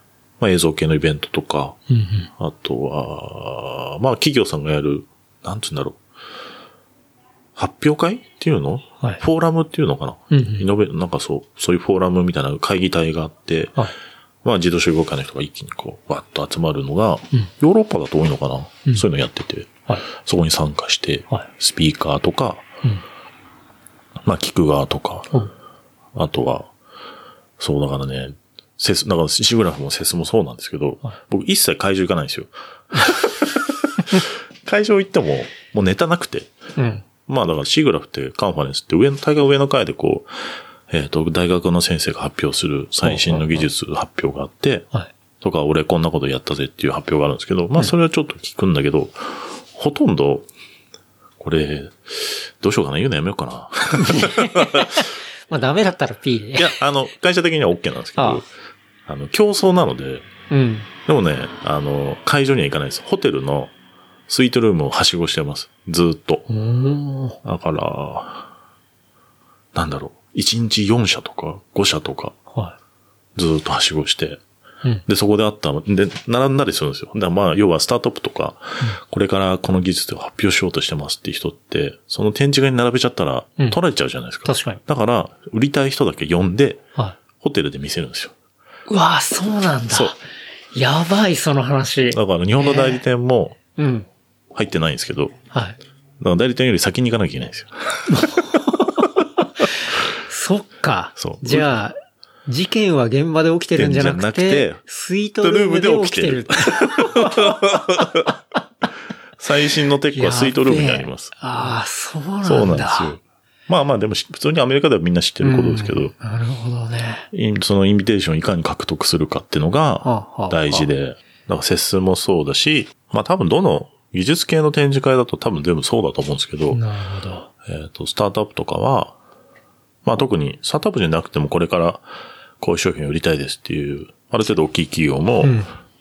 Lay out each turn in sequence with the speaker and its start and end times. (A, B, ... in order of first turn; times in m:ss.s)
0:00.4-0:01.8 A
0:01.9-0:02.3 B
0:02.4-0:06.0 A
0:07.6-0:13.8 A
0:10.3-0:10.6 B
0:14.4-0:22.7 A
0:24.2-0:25.3 A
0:26.1-0:26.7 A
0:27.6-0:36.5 A
0:36.8-0:37.0 B
0:37.2-0:40.3 A
0:40.9-0:44.9 A
0:43.0-0:43.6 B
0:45.4-0:50.5 A
0:51.4-0:55.0 A
0:54.0-0:56.8 B
0:56.6-0:58.5 A
0:58.2-0:58.4 B
0:59.0-1:00.2 A
1:00.5-1:00.9 B
1:01.0-1:03.7 A
1:04.3-1:06.5 A
1:06.5-1:07.4 B
1:07.4-1:08.5 A
1:09.7-1:12.4 A
1:13.4-1:14.4 A
1:15.0-1:26.8 A
1:24.4-1:24.8 B
1:27.4-1:28.3 A
1:28.9-1:33.0 B
1:29.9-1:30.1 A
1:32.1-1:33.6 A
1:33.8-1:34.1 B
1:34.5-1:35.4 A
1:35.5-1:35.8 B
1:36.2-1:38.6 A
1:38.1-1:48.3 B
1:41.2-1:41.7 A
1:43.8-1:44.8 A
1:45.4-1:48.3 A
1:49.4-1:51.3 A
1:50.1-1:53.2 B
1:52.4-1:56.1 A
1:55.4-1:57.3 B
1:57.3-2:06.8 A
2:00.0-2:00.9 B
2:06.7-2:07.5 B
2:07.6-2:09.2 A
2:10.0-2:12.1 A
2:12.6-2:15.6 A
2:15.4-2:15.7 B